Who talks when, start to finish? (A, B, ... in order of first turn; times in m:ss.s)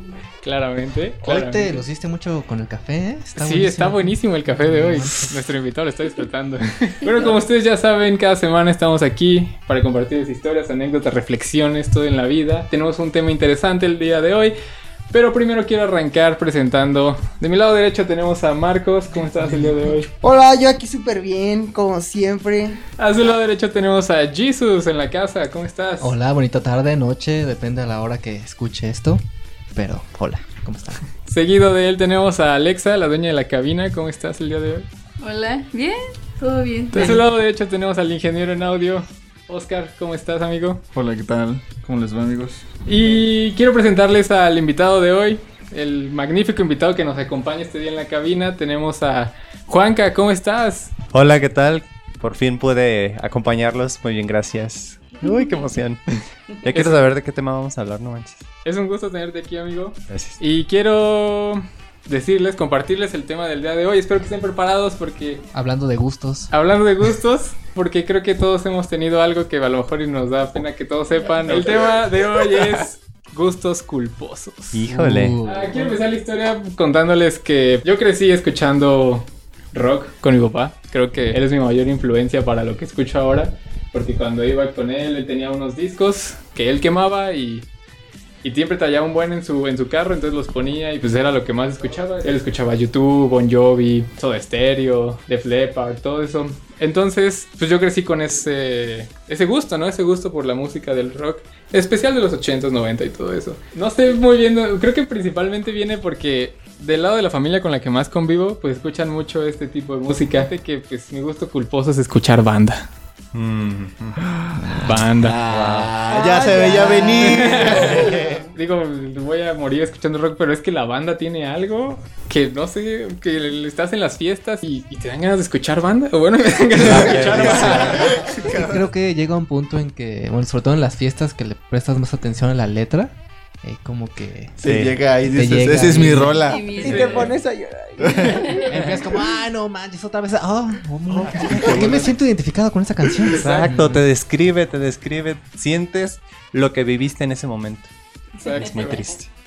0:00.4-0:01.8 A
0:01.2-0:05.4 B
0:03.4-0:14.5 A
0:15.1-0:20.1 A
0:20.2-0:22.8 C
0:23.0-0:26.1 A
0:26.0-0:29.2 B
0:29.7-0:31.0 B
0:31.2-0:34.9 A
0:35.2-0:37.2 D
0:36.9-0:40.8 A
0:40.9-0:43.2 E
0:42.8-0:50.9 A
0:51.1-0:58.4 F
0:55.2-0:55.5 D
0:56.7-0:57.0 A
0:58.6-1:05.4 A
1:00.1-1:00.4 F
1:05.5-1:06.5 B
1:06.5-1:14.8 A
1:11.5-1:11.8 E
1:14.7-1:15.4 F
1:14.9-1:16.0 B
1:15.4-1:27.7 A
1:28.4-1:52.9 A
1:53.3-1:54.2 F
1:54.2-1:58.0 E
1:54.7-1:55.4 A
1:55.4-1:56.1 F
1:55.7-1:58.5 C
1:57.2-2:08.3 A
1:57.9-1:58.4 F
2:06.8-2:08.1 F
2:06.9-2:08.9 E
2:08.5-2:14.6 B
2:14.6-2:17.0 E
2:14.6-2:15.0 F
2:15.3-2:16.5 B
2:16.4-2:17.3 D
2:16.7-2:18.7 C
2:16.7-2:17.3 A
2:18.0-2:18.6 E
2:18.2-2:18.6 D
2:18.6-2:24.0 B
2:18.7-2:19.0 F
2:21.2-2:22.2 F
2:23.3-2:27.9 F
2:23.3-2:23.7 A
2:28.4-2:29.0 A
2:28.5-2:29.3 F